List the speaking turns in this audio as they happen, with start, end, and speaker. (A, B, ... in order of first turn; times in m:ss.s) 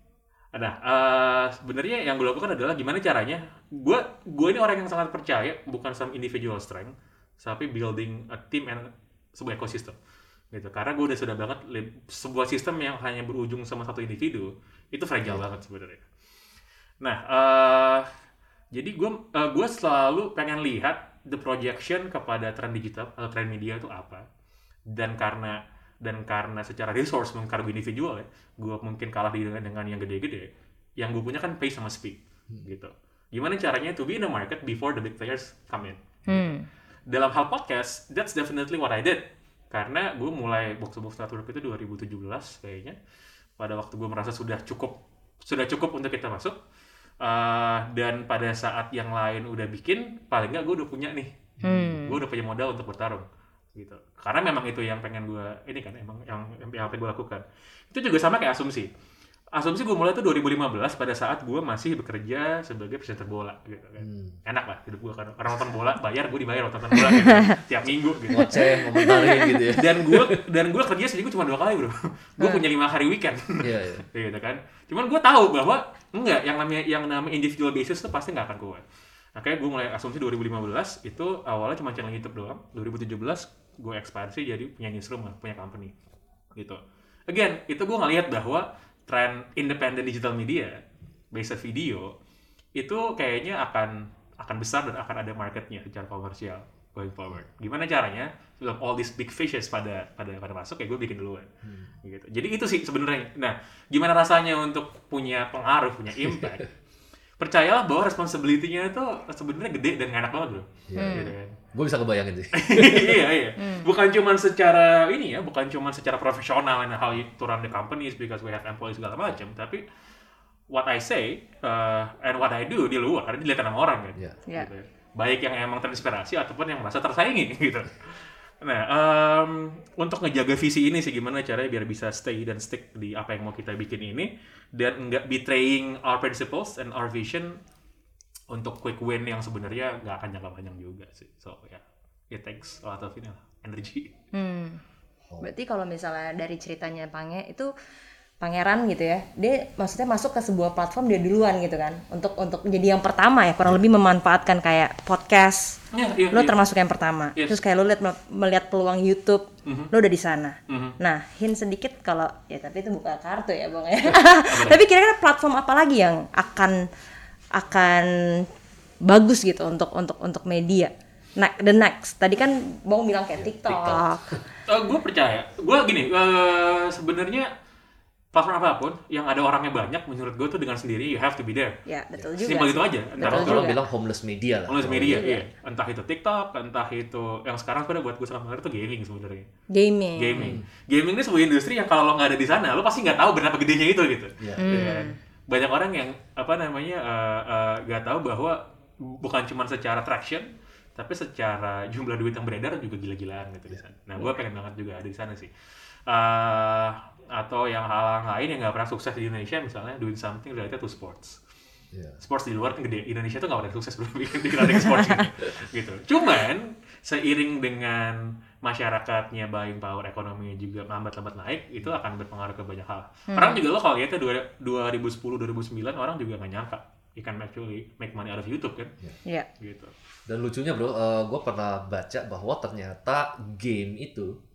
0:00.5-0:10.0 A
0:10.5-0:16.0 A
0:17.0-0:18.1 A
0:18.7-0:24.2 A
0:24.9-0:30.5 A
0:31.0-0:36.5 A
0:36.3-0:36.7 B
0:37.1-0:43.0 A
0:43.6-0:44.9 A
0:45.4-0:46.6 A
0:47.2-0:58.9 A
0:51.6-0:51.9 C
0:51.6-0:52.2 B
0:59.5-1:08.5 A
1:04.0-1:04.4 C
1:07.3-1:07.5 B
1:08.3-1:10.4 C
1:09.0-1:09.5 B
1:09.7-1:18.8 A
1:13.6-1:14.0 C
1:19.4-1:25.9 A
1:26.6-1:30.8 A
1:31.3-1:32.1 A
1:32.8-1:41.5 A
1:41.6-1:41.9 C
1:42.0-1:46.7 A
1:46.2-1:46.6 C
1:47.4-1:51.6 A
1:50.9-1:53.3 C
1:51.0-1:51.3 B
1:52.5-1:59.8 A
1:53.6-1:53.9 B
2:00.7-2:17.6 A
2:18.5-2:24.1 A
2:24.3-2:24.8 B
2:25.4-2:27.7 B
2:28.4-2:35.8 B
2:35.9-2:36.6 A
2:36.3-2:46.8 B
2:39.7-2:39.9 A
2:40.7-2:41.0 A
2:44.5-2:44.8 A
2:47.6-2:48.5 B
2:49.0-2:54.2 B
2:53.4-2:54.4 C
2:54.7-2:57.5 A
2:58.3-3:01.8 A
3:01.9-3:03.8 B
3:02.4-3:03.7 A
3:03.2-3:05.2 C
3:04.7-3:09.5 A
3:05.1-3:05.5 B
3:09.7-3:10.6 B
3:10.2-3:25.5 A
3:14.4-3:14.9 C
3:14.6-3:15.2 B
3:26.1-3:31.4 A
3:31.9-3:32.2 C
3:32.2-3:48.9 A
3:34.8-3:35.3 B
3:43.3-3:43.6 B
3:49.6-3:49.9 A
3:50.3-3:54.4 C